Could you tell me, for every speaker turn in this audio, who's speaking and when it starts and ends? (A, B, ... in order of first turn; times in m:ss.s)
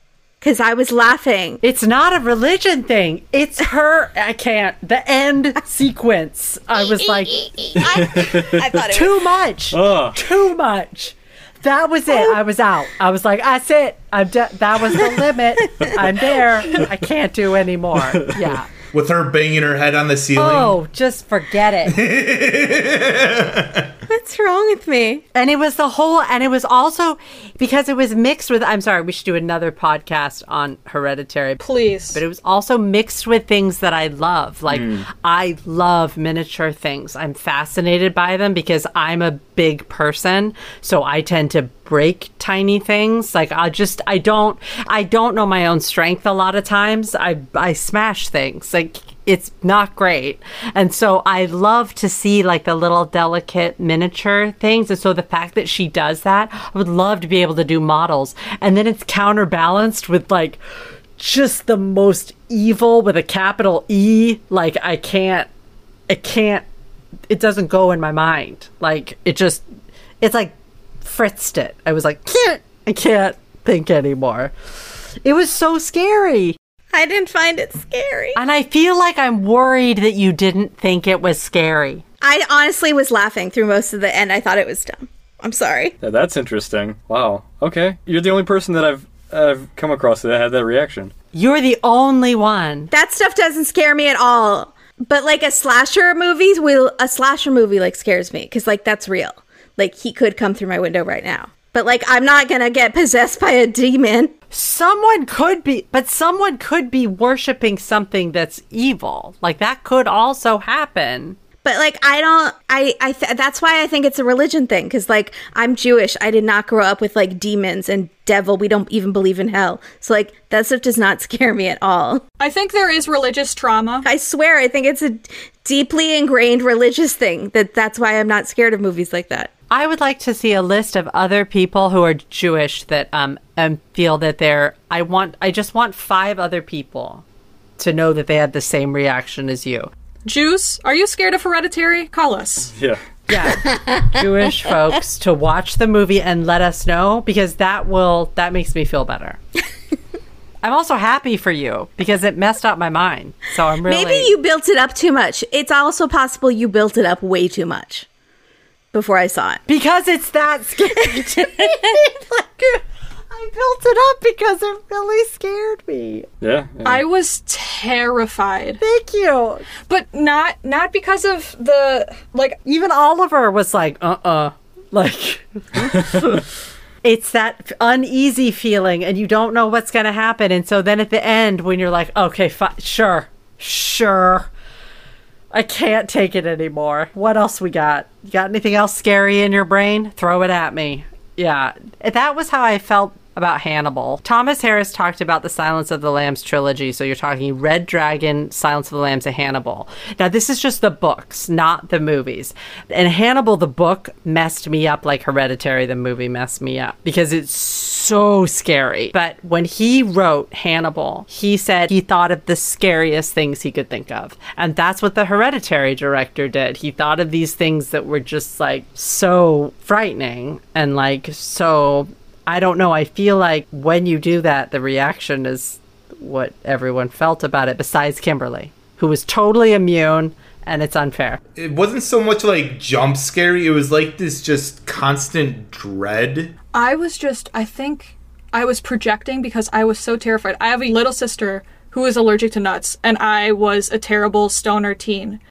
0:00.4-0:01.6 A
0:01.6-0:07.5 B
0:06.9-0:09.3 A
0:07.8-0:08.8 C
0:08.9-0:18.7 B
0:09.7-0:10.2 C
0:18.1-0:18.6 C
0:18.9-0:20.8 D
0:20.4-0:22.0 B
0:21.8-0:23.9 D
0:24.1-0:25.2 A
0:25.4-1:00.6 B
0:31.6-0:32.2 E
0:34.7-0:35.1 C
1:01.2-1:05.5 B
1:06.1-1:06.6 B
1:07.3-1:09.6 B
1:10.2-1:14.5 B
1:15.2-1:16.6 B
1:16.9-1:18.4 A
1:18.4-1:22.0 B
1:22.2-1:25.9 A
1:26.0-1:31.1 C
1:31.3-1:32.9 B
1:32.9-1:44.3 A
1:44.5-1:51.4 B
1:51.6-2:02.2 A
2:02.4-2:04.1 E
2:04.0-2:09.5 A
2:09.7-2:17.2 B
2:17.8-2:19.9 B
2:20.2-2:22.7 E
2:22.7-2:23.0 C
2:23.3-2:29.4 B
2:30.6-2:34.4 B
2:33.9-2:38.1 A
2:38.9-2:39.6 A
2:39.7-2:46.3 B
2:46.4-2:47.0 C
2:46.8-2:48.8 E
2:48.8-2:49.7 B
2:49.9-2:52.6 E
2:52.6-2:56.4 B
2:57.0-3:04.5 B
3:05.5-3:51.4 B
3:51.6-3:56.5 D
3:56.7-4:05.4 E